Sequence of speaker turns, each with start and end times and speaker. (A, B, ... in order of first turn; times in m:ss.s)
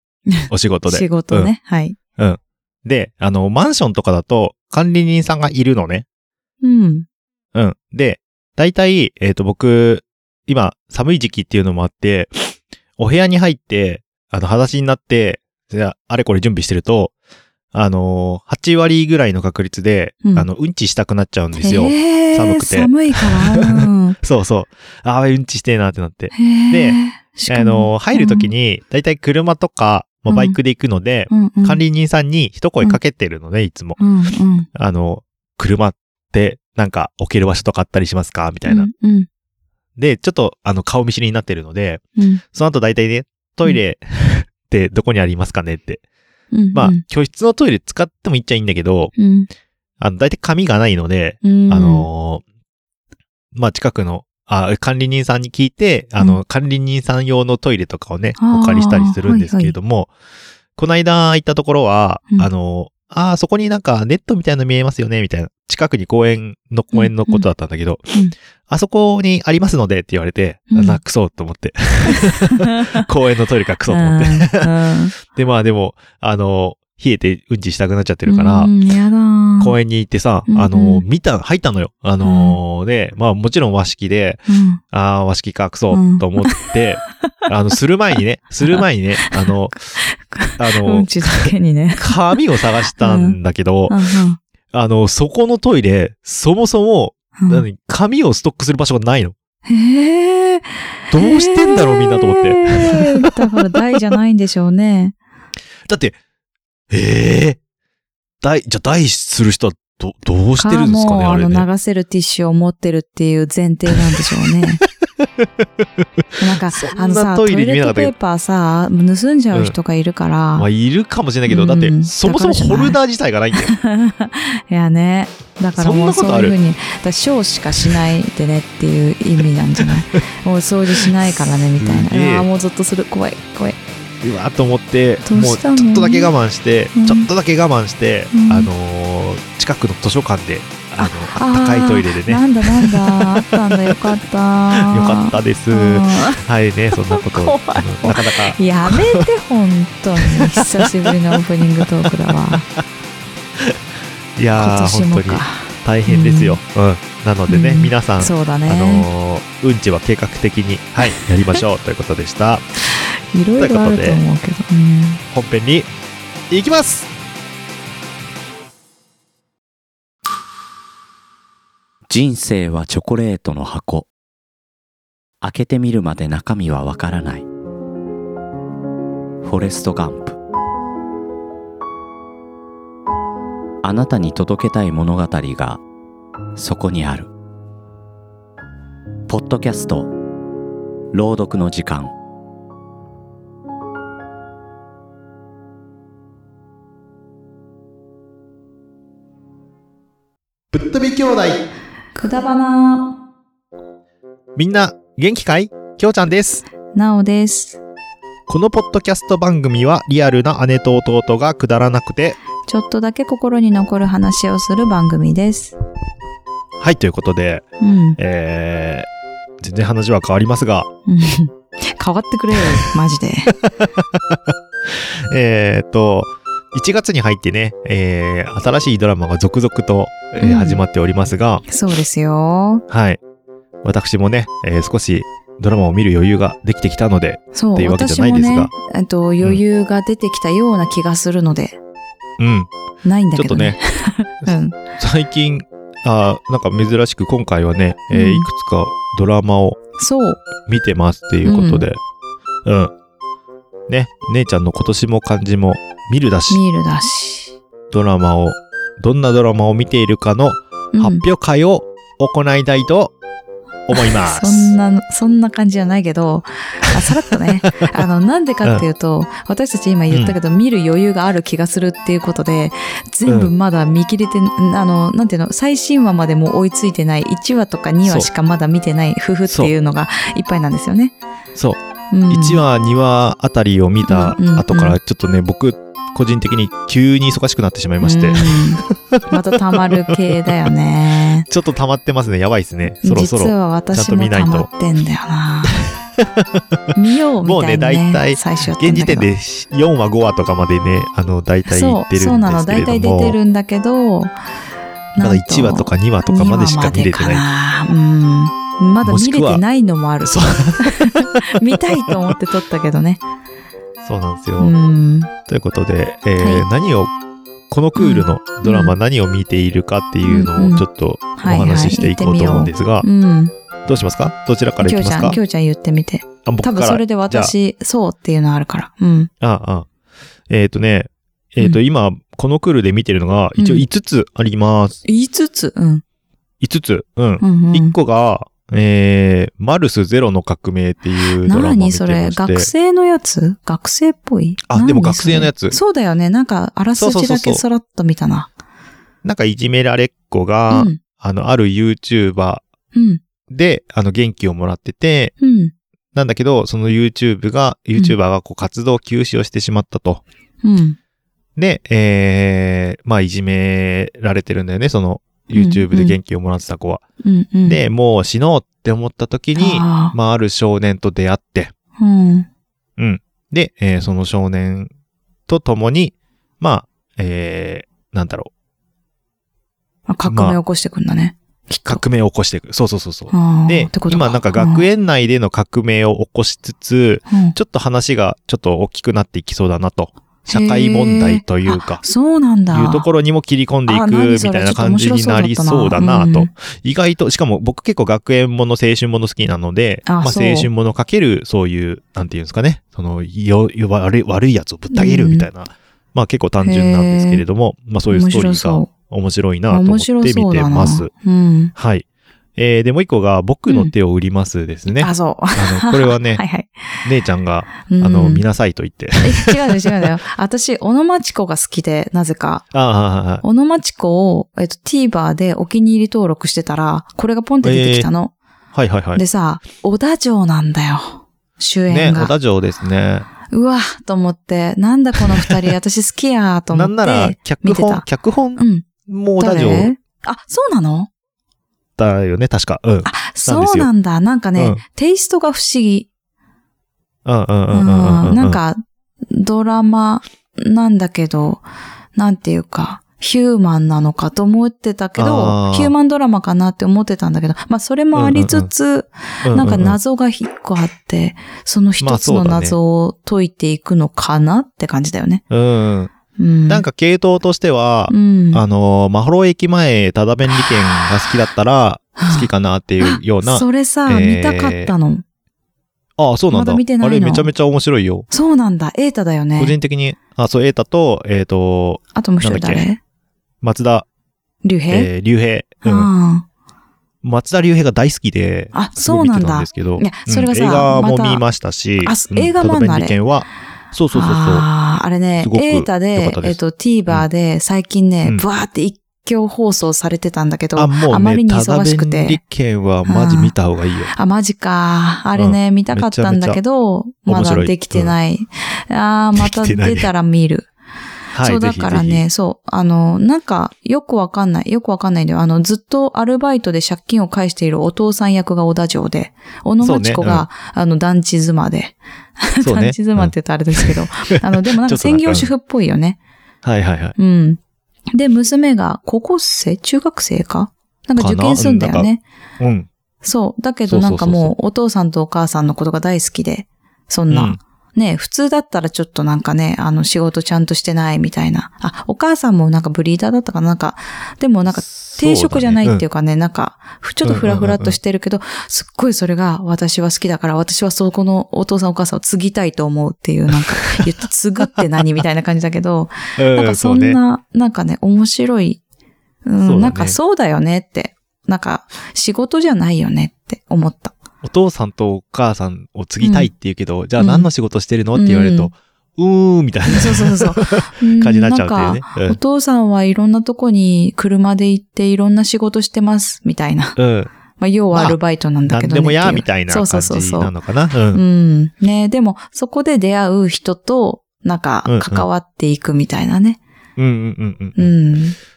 0:00.3-0:02.0 A
0:00.5-0:01.5 B
0:02.2-0:06.0 B
0:06.6-0:07.1 A
0:07.5-0:17.1 B
0:17.7-0:34.0 B
0:21.6-0:24.2 A
0:26.3-0:28.5 A
0:30.3-0:30.6 A
0:31.3-0:31.8 A
0:34.0-0:34.7 A
0:34.7-0:38.9 B
0:38.6-0:39.3 A
0:40.0-0:46.0 B
0:42.2-0:42.4 A
0:46.5-0:47.0 A
0:46.7-0:49.1 B
0:49.2-0:49.5 A
0:50.0-0:52.4 B
0:51.4-0:52.1 A
0:53.5-1:00.1 B
0:58.4-0:59.7 A
1:00.8-1:08.1 B
1:06.9-1:07.4 A
1:08.7-1:18.7 B
1:10.7-1:11.0 A
1:12.1-1:13.0 A
1:13.9-1:15.1 A
1:18.3-1:19.8 A
1:19.6-1:29.8 B
1:20.5-1:21.0 A
1:22.2-1:22.6 A
1:24.5-1:24.8 A
1:25.9-1:26.5 A
1:30.0-1:32.4 A
1:30.6-1:34.0 B
1:32.9-1:33.4 A
1:33.9-1:34.4 A
1:34.7-1:39.3 B
1:37.4-1:37.6 A
1:39.6-1:45.2 A
1:41.1-1:43.8 B
1:45.9-1:46.2 B
1:46.9-1:47.6 B
1:48.4-1:51.6 B
1:50.6-1:54.8 A
1:56.4-2:00.7 A
1:56.7-1:58.1 B
2:00.6-2:03.7 B
2:01.5-2:03.0 A
2:03.6-2:13.8 A
2:05.8-2:06.5 B
2:11.0-2:12.5 B
2:14.2-2:24.1 B
2:15.2-2:16.3 A
2:17.0-2:17.3 A
2:18.3-2:18.7 A
2:21.0-2:26.4 A
2:24.7-2:29.2 B
2:27.1-2:32.6 A
2:30.2-2:31.2 B
2:34.4-2:42.7 B
2:34.6-2:36.6 A
2:37.5-2:39.1 A
2:43.3-2:45.2 A
2:43.6-2:44.2 B
2:45.3-2:45.9 B
2:46.5-2:47.1 B
2:52.1-2:54.1 C
2:55.4-2:57.4 C
2:59.4-3:00.4 C
3:03.8-3:05.8 C
3:06.6-3:07.3 C
3:09.3-3:10.1 C
3:11.1-3:12.1 C
3:20.7-3:21.6 B
3:22.1-3:23.1 A
3:24.6-3:26.6 B
3:26.9-3:27.8 A
3:28.5-3:32.4 B
3:32.6-3:35.8 A
3:36.8-3:37.6 B
3:37.8-3:38.2 A
3:38.2-3:39.1 B
3:39.6-3:40.9 B
3:41.1-3:43.5 A
3:43.6-3:51.6 B
3:50.4-3:50.8 A
3:51.7-3:52.8 A
3:52.9-3:53.2 B
3:53.8-3:58.7 B
3:57.5-4:01.8 A
4:02.4-4:02.7 B
4:03.0-4:04.8 A
4:03.3-4:03.8 B
4:04.4-4:09.8 B
4:08.1-4:08.5 A
4:10.0-4:10.4 A
4:10.6-4:12.0 B
4:11.4-4:11.8 A
4:12.6-4:12.9 B
4:13.9-4:16.6 B
4:16.5-4:17.5 A
4:17.9-4:23.1 B
4:20.9-4:21.2 A
4:23.9-4:24.7 B
4:23.9-4:41.1 A
4:27.6-4:27.9 B
4:30.1-4:30.3 B
4:33.3-4:33.5 B
4:39.5-4:39.7 B
4:41.6-4:50.6 B
4:42.1-4:42.6 A
4:44.1-4:45.0 A
4:48.0-4:51.4 A
4:51.5-4:54.7 B
4:53.0-4:55.8 A
4:55.8-4:56.6 B
4:56.9-4:59.3 A
4:57.4-5:03.4 B
5:01.7-5:04.3 A
5:05.2-5:13.2 A
5:05.2-5:07.4 B
5:09.0-5:09.6 B
5:10.2-5:12.3 B
5:14.0-5:14.7 B
5:14.6-5:15.3 A
5:15.5-5:17.1 B
5:16.4-5:16.6 A
5:17.7-5:23.0 B
5:18.0-5:18.9 A
5:20.2-5:20.8 A
5:21.4-5:23.5 A
5:23.8-5:25.4 B
5:24.8-5:29.3 A
5:26.4-5:27.5 B
5:29.4-5:29.9 B
5:30.5-5:35.0 B
5:33.6-5:33.8 A
5:35.0-5:36.0 A
5:36.6-5:42.7 B
5:37.4-5:37.9 A
5:41.4-5:48.5 A
5:44.6-5:45.8 B
5:47.0-5:47.6 B
5:49.2-5:52.6 B
5:50.7-5:51.0 A
5:52.9-5:53.2 A
5:53.5-5:55.3 B
5:55.4-5:55.7 A
5:56.1-6:00.2 B
6:00.6-6:01.0 A
6:01.6-6:07.0 B
6:05.5-6:06.2 A
6:07.2-6:07.8 A
6:07.6-6:11.7 B
6:09.6-6:10.1 A
6:12.0-6:12.5 A
6:13.0-6:14.9 B
6:15.5-6:18.5 B
6:20.1-6:22.0 A
6:20.2-6:20.6 B
6:21.8-6:32.0 B
6:23.3-6:24.8 A
6:27.3-6:27.6 A
6:30.5-6:33.0 A
6:32.7-6:51.1 B
6:33.9-6:36.5 A
6:40.0-6:40.7 A
6:44.9-6:45.5 A
6:46.6-6:47.4 A
6:48.1-6:48.9 A
6:49.7-6:51.7 A
6:51.7-6:52.0 B
6:52.6-6:56.4 B
6:55.0-6:56.7 A
6:57.0-7:00.1 B
6:57.8-6:58.4 A
6:59.2-7:02.6 A
7:02.7-7:03.4 B
7:03.4-7:08.3 A
7:07.6-7:08.1 B
7:08.7-7:09.2 B
7:09.1-7:12.3 A
7:11.9-7:13.3 B
7:13.5-7:18.9 A
7:16.7-7:19.9 B
7:19.4-7:21.1 A
7:22.0-7:23.9 B
7:23.0-7:26.1 A
7:27.2-7:28.6 B
7:27.7-7:31.6 A
7:32.2-7:45.4 A
7:35.2-7:35.9 B
7:38.1-7:38.7 B
7:39.4-7:40.0 B
7:42.0-7:42.8 B
7:45.5-7:46.1 B
7:46.4-7:46.8 A
7:46.7-7:54.9 B
7:48.1-7:48.6 A
7:52.2-7:52.5 A
7:53.0-7:55.2 A
7:56.2-7:58.2 B
7:56.5-7:57.5 A
7:58.3-7:59.7 A
7:59.6-8:02.8 B
8:02.1-8:03.0 A
8:03.6-8:04.0 B
8:04.6-8:05.1 A
8:04.9-8:06.1 B
8:05.8-8:06.4 A
8:07.2-8:14.6 B
8:08.7-8:11.4 A
8:12.0-8:13.2 A
8:14.1-8:22.4 A
8:15.4-8:17.3 B
8:20.8-8:24.1 B
8:23.0-8:23.5 A
8:24.1-8:30.7 A
8:25.3-8:26.6 B
8:27.2-8:28.1 B
8:29.4-8:30.1 B
8:31.3-8:32.2 B
8:31.4-8:46.2 A
8:39.8-8:40.4 B
8:42.6-8:45.5 B
8:46.6-8:47.1 B
8:47.2-8:47.6 A
8:48.1-8:52.2 A
8:51.2-8:52.1 B
8:52.6-8:52.9 B
8:53.2-9:18.8 A
8:53.8-8:54.5 B
8:57.3-8:57.6 B
9:04.7-9:06.0 B
9:07.2-9:08.0 B
9:13.7-9:14.0 B
9:16.4-9:17.2 B
9:19.4-9:24.2 A
9:19.6-9:20.2 B
9:24.4-9:32.4 B
9:26.2-9:26.5 A
9:27.2-9:27.5 A
9:28.1-9:28.7 A
9:29.9-9:37.0 A
9:37.0-9:37.3 B
9:37.6-9:40.5 A
9:37.9-9:41.2 B
9:41.1-9:46.6 A
9:44.8-9:45.3 B
9:47.0-9:47.9 B
9:47.8-9:48.4 A